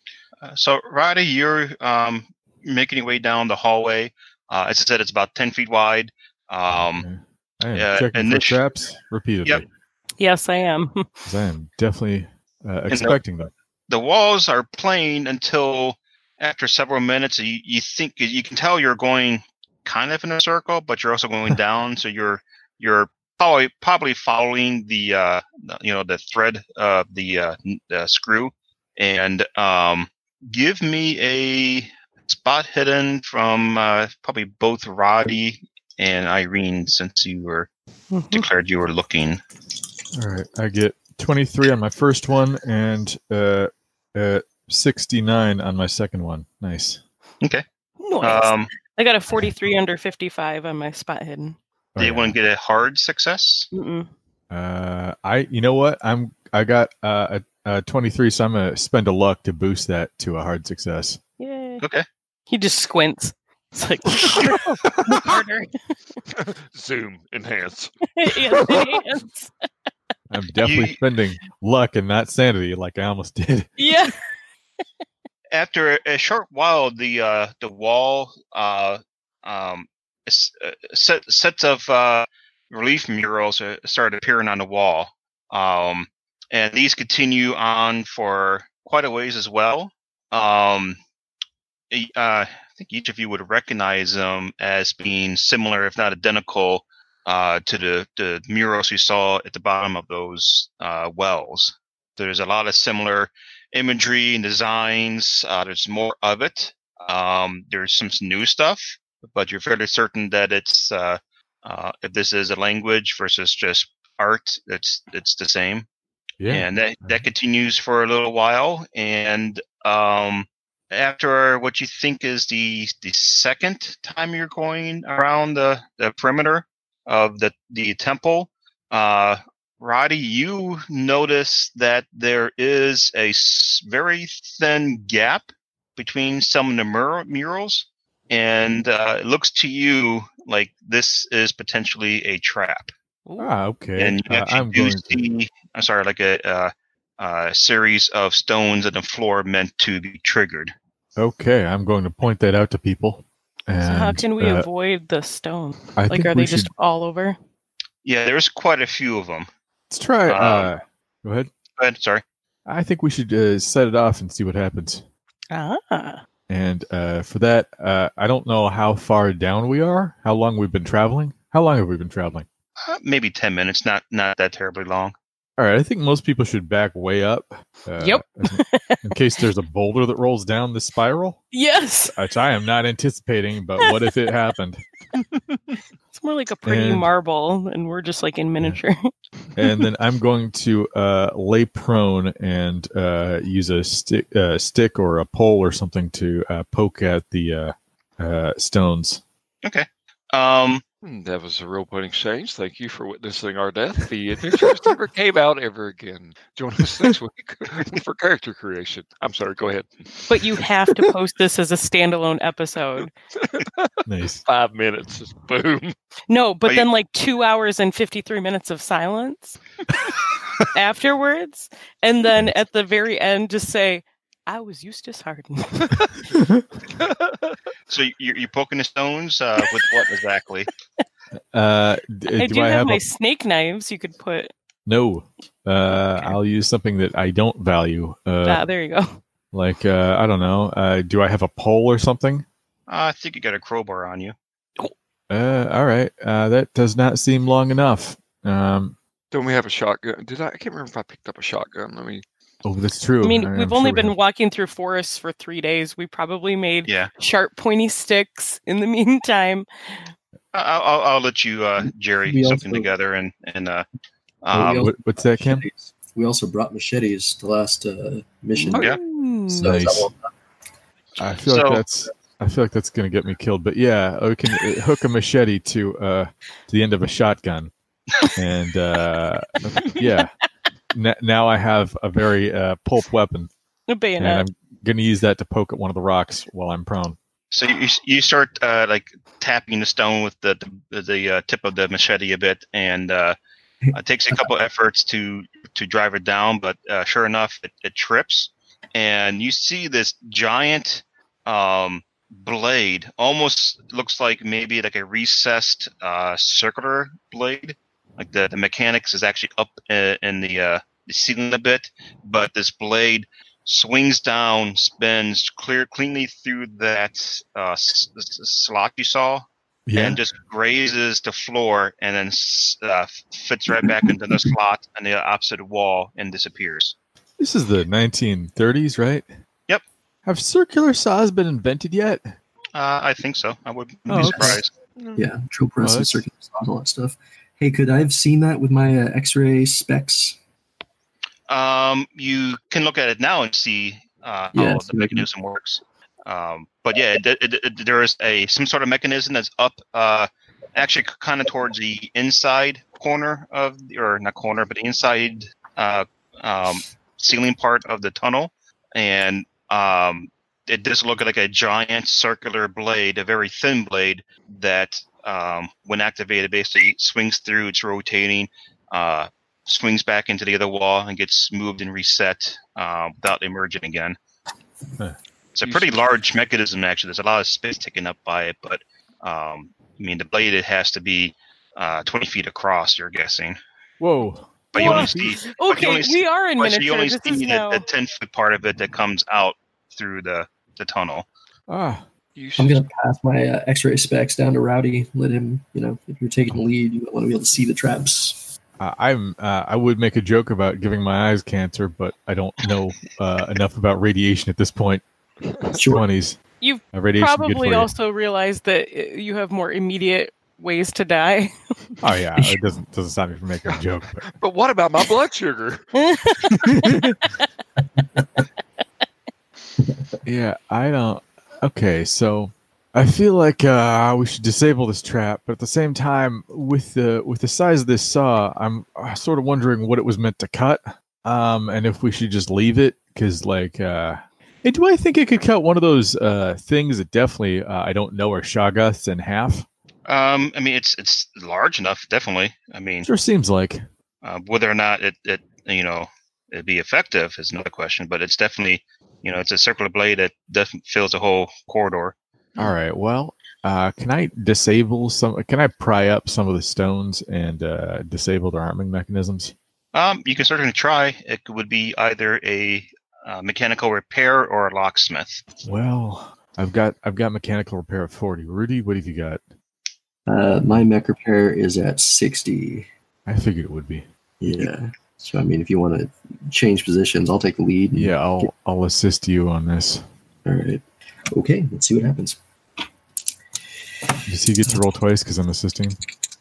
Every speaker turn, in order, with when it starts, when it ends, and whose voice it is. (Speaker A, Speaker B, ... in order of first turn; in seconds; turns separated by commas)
Speaker A: 0.4-7.1, Speaker B: 6.8-9.7, Speaker A: 7.7-8.6, Speaker C: 10.2-11.2, Speaker B: 11.2-13.5, Speaker A: 12.9-13.2, Speaker A: 13.9-37.7, Speaker C: 38.1-38.4, Speaker A: 38.3-39.4, Speaker B: 40.1-47.0, Speaker C: 48.0-51.6, Speaker A: 48.2-48.7, Speaker B: 51.9-52.3, Speaker A: 52.0-53.7, Speaker C: 53.7-54.1, Speaker B: 54.5-61.2, Speaker C: 61.4-61.8, Speaker C: 62.5-65.8, Speaker B: 64.2-65.3, Speaker D: 66.3-67.9, Speaker C: 68.2-69.5, Speaker D: 68.5-68.9, Speaker B: 70.3-73.7, Speaker A: 70.6-71.0, Speaker C: 73.8-74.2, Speaker A: 75.5-91.0, Speaker A: 91.9-115.8, Speaker B: 116.4-117.2, Speaker A: 116.5-142.9, Speaker B: 143.4-145.2, Speaker A: 144.0-150.7, Speaker B: 151.2-154.7, Speaker C: 153.8-157.4, Speaker B: 156.0-156.7, Speaker A: 158.0-159.5, Speaker B: 159.9-161.5, Speaker A: 160.3-160.7, Speaker A: 161.8-162.2, Speaker B: 162.7-165.0, Speaker C: 165.5-166.2, Speaker B: 166.5-172.5, Speaker A: 172.8-175.1, Speaker B: 175.6-181.4, Speaker C: 178.0-179.0, Speaker C: 181.5-182.2, Speaker B: 182.1-184.8, Speaker C: 186.1-189.1, Speaker B: 186.7-187.1, Speaker B: 189.6-199.2, Speaker A: 199.6-200.8, Speaker D: 201.0-209.9, Speaker C: 210.3-213.1, Speaker D: 213.4-213.9, Speaker B: 214.1-214.4, Speaker D: 214.4-215.9, Speaker C: 216.3-219.6, Speaker C: 220.7-226.2, Speaker B: 226.3-226.7, Speaker D: 227.0-227.6, Speaker A: 227.9-230.7, Speaker B: 231.5-233.0, Speaker C: 232.3-234.5, Speaker B: 234.8-238.7, Speaker C: 238.4-239.2, Speaker B: 239.5-242.5, Speaker A: 242.9-244.3, Speaker B: 245.3-249.0, Speaker D: 249.3-252.2, Speaker B: 252.6-254.1, Speaker C: 253.2-260.0, Speaker A: 256.9-257.1, Speaker A: 260.5-263.9, Speaker E: 262.2-262.9, Speaker A: 264.4-264.9, Speaker B: 264.5-265.6, Speaker E: 264.5-270.3, Speaker D: 268.7-269.0, Speaker C: 268.9-269.7, Speaker B: 269.5-270.1, Speaker B: 271.2-277.7, Speaker A: 271.5-271.9, Speaker B: 278.3-280.3, Speaker C: 279.8-280.2, Speaker B: 280.9-283.5, Speaker C: 283.9-284.5, Speaker B: 284.2-287.2, Speaker A: 287.5-293.4, Speaker A: 293.9-327.0, Speaker B: 319.9-320.2, Speaker B: 327.4-329.3, Speaker B: 330.2-332.3, Speaker A: 332.8-334.7, Speaker B: 334.1-334.6, Speaker E: 334.1-334.6, Speaker D: 335.0-335.2, Speaker E: 335.2-340.4, Speaker B: 335.8-336.2, Speaker A: 341.5-374.2, Speaker E: 344.6-345.2, Speaker A: 375.6-383.6, Speaker D: 375.6-376.0, Speaker B: 384.0-385.4, Speaker A: 384.7-391.2, Speaker C: 384.8-387.9, Speaker B: 391.7-392.1, Speaker D: 392.4-392.9, Speaker E: 392.6-398.4, Speaker B: 398.8-405.0, Speaker E: 405.7-406.1, Speaker B: 405.7-406.4, Speaker C: 406.6-412.0, Speaker B: 406.9-407.9, Speaker B: 412.0-414.2, Speaker D: 413.6-415.9, Speaker C: 415.9-417.0, Speaker B: 416.6-417.2, Speaker B: 420.2-439.6, Speaker A: 440.1-443.1, Speaker B: 443.1-443.8, Speaker A: 444.2-452.1, Speaker B: 452.6-459.5, Speaker A: 459.9-465.4, Speaker B: 465.6-469.4, Speaker E: 470.3-472.9, Speaker B: 473.3-474.1, Speaker E: 474.4-478.5, Speaker B: 477.9-480.0, Speaker E: 480.4-482.4, Speaker B: 484.3-486.0